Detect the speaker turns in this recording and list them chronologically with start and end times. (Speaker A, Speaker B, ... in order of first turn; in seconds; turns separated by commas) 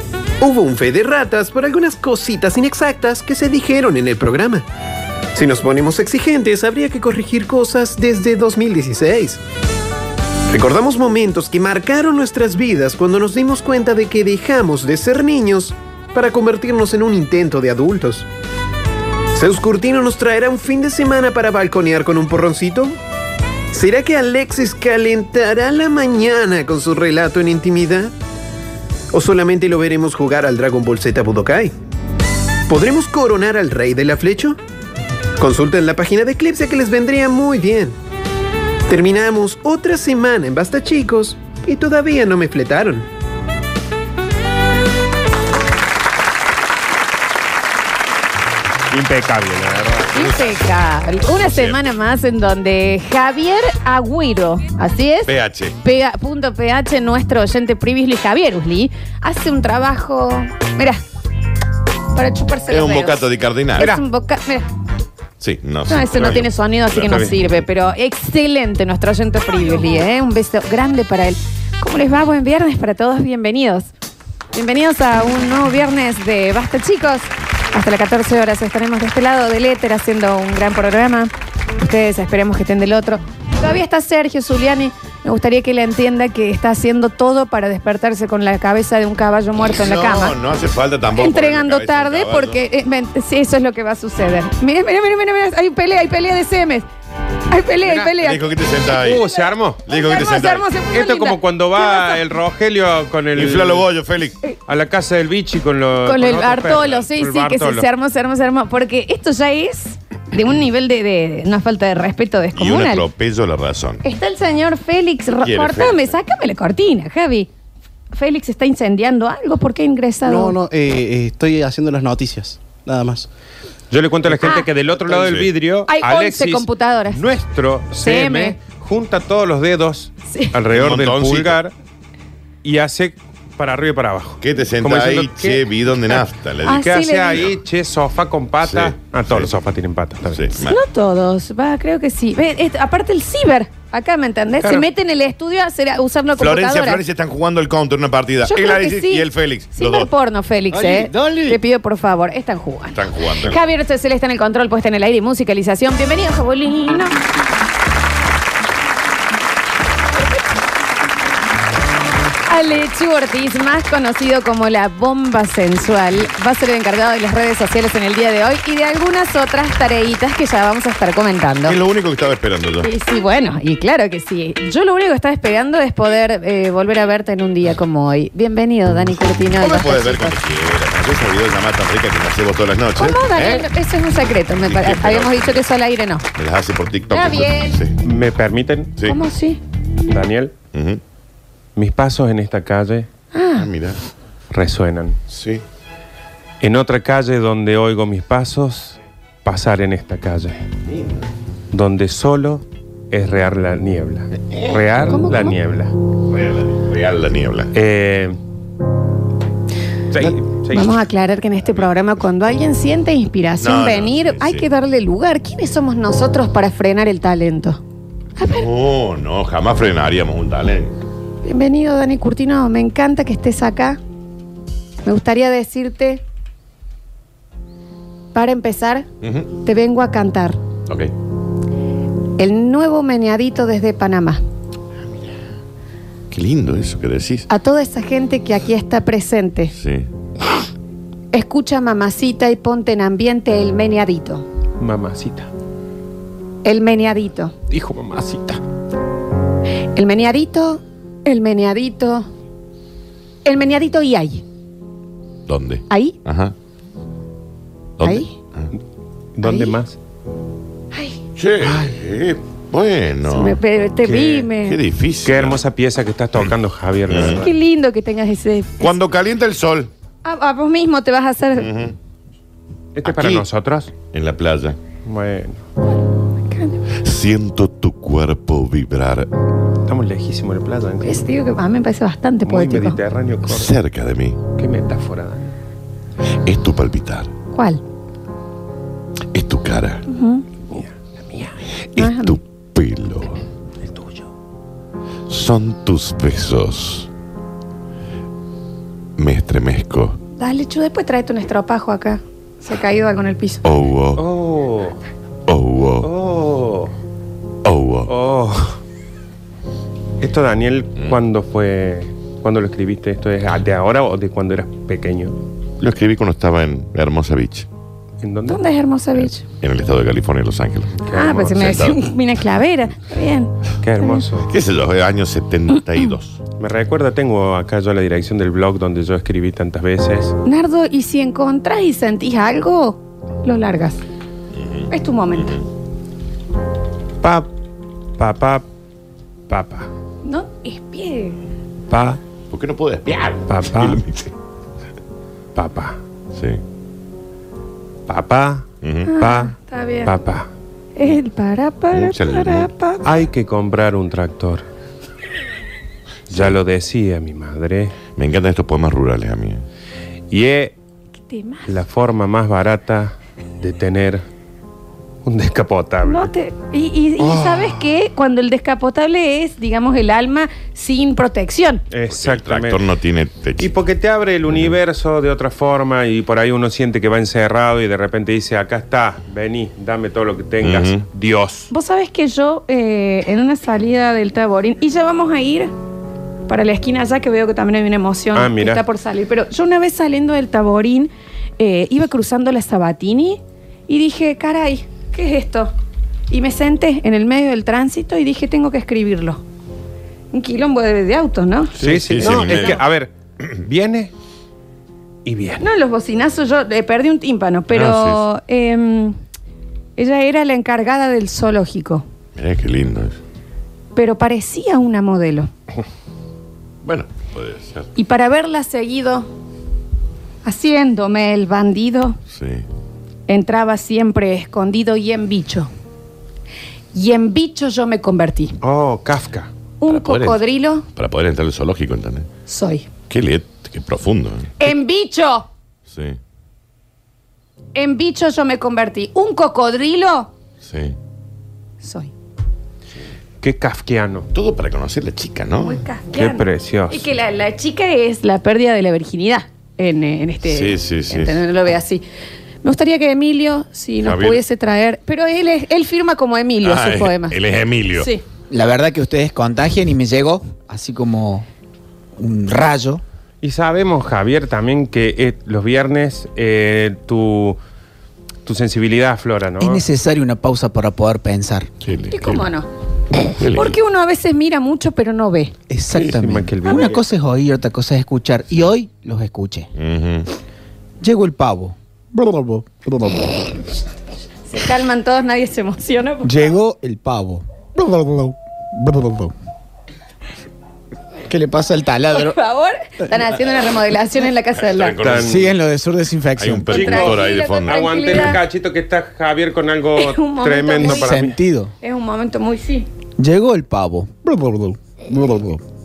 Speaker A: 0.4-4.7, Speaker A: 5.3-9.4, Speaker A: 10.5-18.3, Speaker A: 19.3-23.0, Speaker A: 23.7-28.1, Speaker A: 29.1-31.7, Speaker A: 32.7-34.6, Speaker A: 35.4-38.0, Speaker A: 38.9-43.1, Speaker B: 48.9-50.4, Speaker C: 50.1-61.0, Speaker D: 51.3-51.8, Speaker D: 55.3-55.8, Speaker C: 62.1-64.7, Speaker D: 62.7-63.9, Speaker D: 65.4-67.6, Speaker C: 65.9-73.9, Speaker B: 66.1-66.4, Speaker B: 67.0-67.4, Speaker C: 74.5-90.4, Speaker D: 89.7-92.6, Speaker C: 91.1-96.9, Speaker C: 97.5-98.5, Speaker B: 97.8-98.1, Speaker D: 98.2-99.3, Speaker B: 98.9-99.8, Speaker C: 99.2-102.2, Speaker D: 99.9-100.7, Speaker B: 100.9-103.9, Speaker D: 103.3-104.4, Speaker B: 104.7-107.9, Speaker C: 106.0-113.1, Speaker D: 112.5-114.0, Speaker C: 114.0-117.5, Speaker D: 115.4-116.2, Speaker C: 118.1-120.6, Speaker E: 120.3-123.3, Speaker B: 123.9-131.7, Speaker C: 124.4-124.7, Speaker D: 125.1-125.5, Speaker C: 125.9-127.2, Speaker C: 128.0-128.6, Speaker C: 130.3-130.6, Speaker D: 130.7-131.6, Speaker B: 132.6-135.7, Speaker D: 134.4-137.6, Speaker C: 136.1-137.5, Speaker B: 136.7-140.5, Speaker D: 138.6-139.6, Speaker D: 140.3-140.8, Speaker C: 140.6-147.0, Speaker B: 144.6-144.9, Speaker D: 146.4-150.1, Speaker C: 148.4-157.2, Speaker E: 151.0-151.5, Speaker D: 152.9-153.6, Speaker C: 162.4-171.8, Speaker D: 171.7-172.9, Speaker C: 172.8-180.4, Speaker D: 179.6-183.7, Speaker C: 183.0-186.3, Speaker D: 184.6-185.7, Speaker D: 186.3-188.0, Speaker C: 187.1-187.8, Speaker B: 188.0-188.9, Speaker C: 189.1-189.6, Speaker B: 190.1-190.5, Speaker D: 190.7-191.0, Speaker B: 191.8-193.1, Speaker C: 193.3-193.7, Speaker D: 193.6-194.0, Speaker B: 194.5-195.2, Speaker D: 195.3-195.6, Speaker B: 196.6-200.6, Speaker D: 200.9-201.2, Speaker B: 201.7-206.0, Speaker D: 204.5-204.8, Speaker C: 205.1-205.6, Speaker D: 206.2-207.7, Speaker B: 207.7-208.4, Speaker B: 210.1-211.0, Speaker C: 210.7-217.8, Speaker D: 213.6-214.7, Speaker C: 218.4-218.7, Speaker D: 218.4-221.0, Speaker C: 221.4-224.0, Speaker C: 225.1-226.2, Speaker C: 228.3-229.1, Speaker D: 229.2-229.5, Speaker C: 229.6-230.6, Speaker D: 230.9-231.1, Speaker C: 232.4-234.4, Speaker D: 236.3-237.5, Speaker C: 237.5-239.7, Speaker D: 239.8-240.1, Speaker C: 241.3-244.5, Speaker B: 244.8-245.5, Speaker C: 246.6-247.5, Speaker B: 247.7-248.6, Speaker C: 249.9-252.3, Speaker C: 253.4-254.4, Speaker D: 255.5-256.6, Speaker C: 255.9-256.2, Speaker D: 258.0-258.7, Speaker C: 258.0-258.4, Speaker B: 259.4-260.0, Speaker C: 259.4-259.8, Speaker C: 260.9-261.2, Speaker D: 261.4-263.6, Speaker B: 261.6-262.0, Speaker C: 263.3-264.8, Speaker B: 264.0-264.5, Speaker D: 264.6-265.6, Speaker B: 265.2-267.5, Speaker D: 267.1-267.4, Speaker C: 267.2-268.9, Speaker D: 268.8-269.9, Speaker C: 270.2-271.7, Speaker D: 271.6-271.9, Speaker B: 273.0-273.9, Speaker D: 273.0-273.5, Speaker D: 274.1-274.8, Speaker B: 275.1-275.6, Speaker C: 276.5-276.8, Speaker D: 277.0-279.3, Speaker B: 279.9-281.3, Speaker C: 281.0-283.0, Speaker B: 282.4-283.8, Speaker D: 283.5-284.4, Speaker B: 284.6-285.5, Speaker D: 286.4-287.3, Speaker C: 287.5-287.8, Speaker D: 289.3-290.0, Speaker C: 290.1-290.4, Speaker B: 290.7-291.6, Speaker C: 292.0-292.4, Speaker D: 292.0-293.4, Speaker B: 293.8-294.3, Speaker D: 295.3-297.1, Speaker D: 299.2-300.2, Speaker C: 300.4-303.7, Speaker D: 303.6-304.2, Speaker B: 304.2-305.0, Speaker D: 305.5-306.1, Speaker B: 306.0-306.9, Speaker D: 307.6-308.1, Speaker B: 308.1-308.8, Speaker B: 310.2-315.4, Speaker D: 315.8-317.7, Speaker B: 318.2-318.6, Speaker C: 318.5-319.4, Speaker D: 319.6-322.0, Speaker B: 320.9-321.9, Speaker C: 321.1-324.2, Speaker B: 323.8-324.5, Speaker D: 324.5-326.4, Speaker B: 326.6-330.4, Speaker C: 330.4-334.0, Speaker D: 334.6-335.6, Speaker C: 334.9-335.6, Speaker B: 337.2-337.5, Speaker B: 338.2-338.6, Speaker B: 339.5-339.9, Speaker C: 340.2-341.4, Speaker B: 341.9-342.2, Speaker D: 342.5-344.3, Speaker B: 343.5-344.2, Speaker B: 345.6-346.0, Speaker D: 346.4-346.6, Speaker B: 348.1-350.5, Speaker D: 348.8-349.1, Speaker C: 349.1-350.1, Speaker C: 351.0-353.1, Speaker D: 351.9-352.7, Speaker B: 353.0-354.7, Speaker B: 356.3-358.0, Speaker D: 356.3-356.6, Speaker D: 358.2-359.6, Speaker B: 360.3-360.8, Speaker C: 361.2-361.7, Speaker B: 361.7-364.2, Speaker B: 365.2-366.3, Speaker C: 366.0-371.8, Speaker B: 371.9-372.9, Speaker D: 372.1-373.7, Speaker B: 373.6-381.7, Speaker D: 380.6-381.0, Speaker C: 381.7-385.7, Speaker C: 386.5-395.7, Speaker B: 388.3-388.8, Speaker C: 396.3-399.4, Speaker C: 400.3-402.8, Speaker D: 401.8-402.8, Speaker B: 401.8-404.1, Speaker B: 405.2-405.6, Speaker C: 405.6-409.2, Speaker D: 407.7-408.2, Speaker C: 410.0-412.1, Speaker D: 412.4-413.2, Speaker C: 413.9-415.5, Speaker D: 416.8-417.9, Speaker C: 417.9-419.3, Speaker C: 420.4-422.2, Speaker D: 422.3-422.7, Speaker C: 423.3-425.7, Speaker C: 426.9-428.6, Speaker B: 428.6-429.5, Speaker C: 429.8-430.9, Speaker D: 429.9-430.4, Speaker D: 431.0-432.3, Speaker C: 432.5-432.9, Speaker D: 433.1-434.6, Speaker C: 434.6-435.5, Speaker D: 435.9-436.2, Speaker C: 437.8-440.3, Speaker D: 440.6-441.0, Speaker C: 441.8-442.1, Speaker B: 443.4-444.3, Speaker D: 444.3-445.8, Speaker C: 445.6-452.1, Speaker B: 446.1-447.1, Speaker D: 450.4-451.4, Speaker C: 452.6-457.4, Speaker D: 454.0-454.4, Speaker D: 456.6-458.1, Speaker C: 457.9-458.2, Speaker F: 458.5-461.5, Speaker F: 462.2-463.0, Speaker B: 463.4-467.6, Speaker B: 468.4-469.8, Speaker F: 469.6-471.7, Speaker D: 471.8-472.4, Speaker C: 472.1-472.7, Speaker D: 473.4-473.8, Speaker C: 473.5-475.5, Speaker F: 475.7-479.7, Speaker B: 475.9-477.0, Speaker D: 479.8-480.3, Speaker F: 481.0-483.5, Speaker C: 484.5-486.4, Speaker F: 486.2-489.3, Speaker F: 491.3-492.4, Speaker C: 492.1-495.0, Speaker D: 494.6-495.6, Speaker B: 495.0-495.4, Speaker F: 495.1-496.9, Speaker D: 496.4-498.4, Speaker B: 496.7-501.4, Speaker C: 496.7-498.4, Speaker C: 500.0-501.2, Speaker F: 500.8-501.7, Speaker C: 501.8-502.9, Speaker F: 503.2-505.6